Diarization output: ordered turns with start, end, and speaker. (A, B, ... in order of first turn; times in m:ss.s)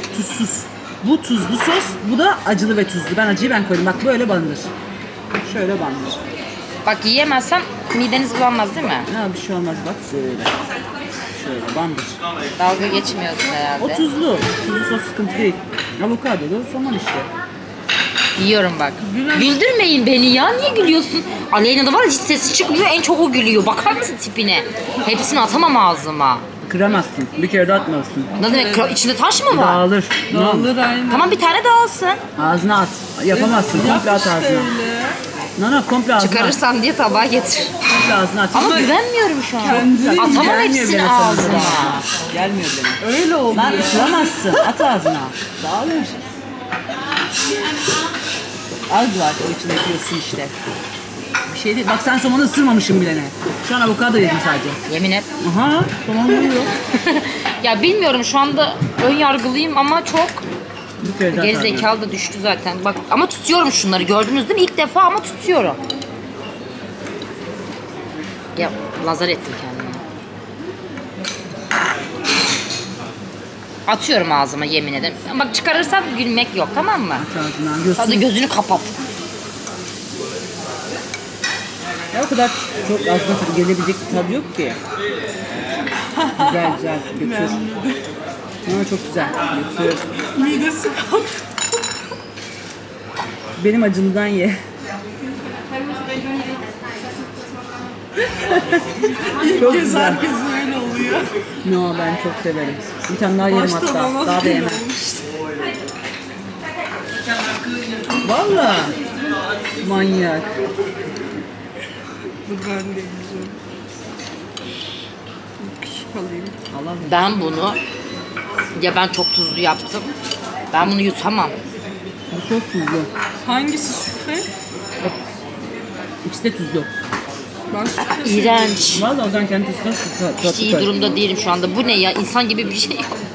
0:00.1-0:04.7 A
0:05.4-0:06.2 A
0:06.8-0:09.1 B
0:09.0-0:10.5 A
0:11.3-0:12.2 A
0:12.6-0:14.0 B
0:13.8-0:17.3 A
0:18.4-0:26.4 B
0:19.0-0:19.5 C
0:26.6-0:28.3 A
0:28.4-0:29.8 B
0:28.4-0:29.0 C
0:29.5-0:30.7 A
0:30.3-0:31.4 C
0:31.1-0:32.2 B
0:32.4-0:34.7 A
0:33.3-0:35.2 C
0:35.6-0:36.6 A
0:36.2-0:37.7 B
0:37.8-0:39.0 A
0:38.5-0:42.0 B
0:39.6-0:40.6 C
0:39.6-0:46.2 A
0:43.0-0:44.5 C
0:48.9-0:50.5 A
0:51.5-0:54.8 A
0:54.9-0:55.3 B
0:55.4-0:56.7 A
0:56.9-1:00.4 B
1:01.0-1:01.9 A
1:01.3-1:05.8 B
1:08.6-1:10.0 B
1:13.9-1:17.2 B
1:17.2-1:18.3 A
1:18.0-1:18.9 B
1:22.1-1:24.8 A
1:26.2-1:28.0 C
1:26.4-1:27.6 A
1:28.6-1:30.0 A
1:30.3-1:31.5 C
1:33.6-1:34.6 A
1:38.6-1:38.8 A
1:39.3-1:41.3 C
1:39.5-1:40.2 A
1:41.6-1:44.8 A
1:43.4-1:45.2 C
1:48.2-1:48.9 A
1:49.8-1:50.5 A
1:52.4-1:53.6 C
1:55.6-1:56.5 C
1:56.7-1:57.4 A
1:57.0-1:57.8 B
1:58.8-2:00.1 B
2:00.7-2:01.5 B
2:02.3-2:03.1 A
2:03.4-2:04.5 C
2:06.2-2:06.9 A
2:07.7-2:08.8 C
2:08.0-2:09.1 B
2:08.9-2:10.9 A
2:10.4-2:13.1 B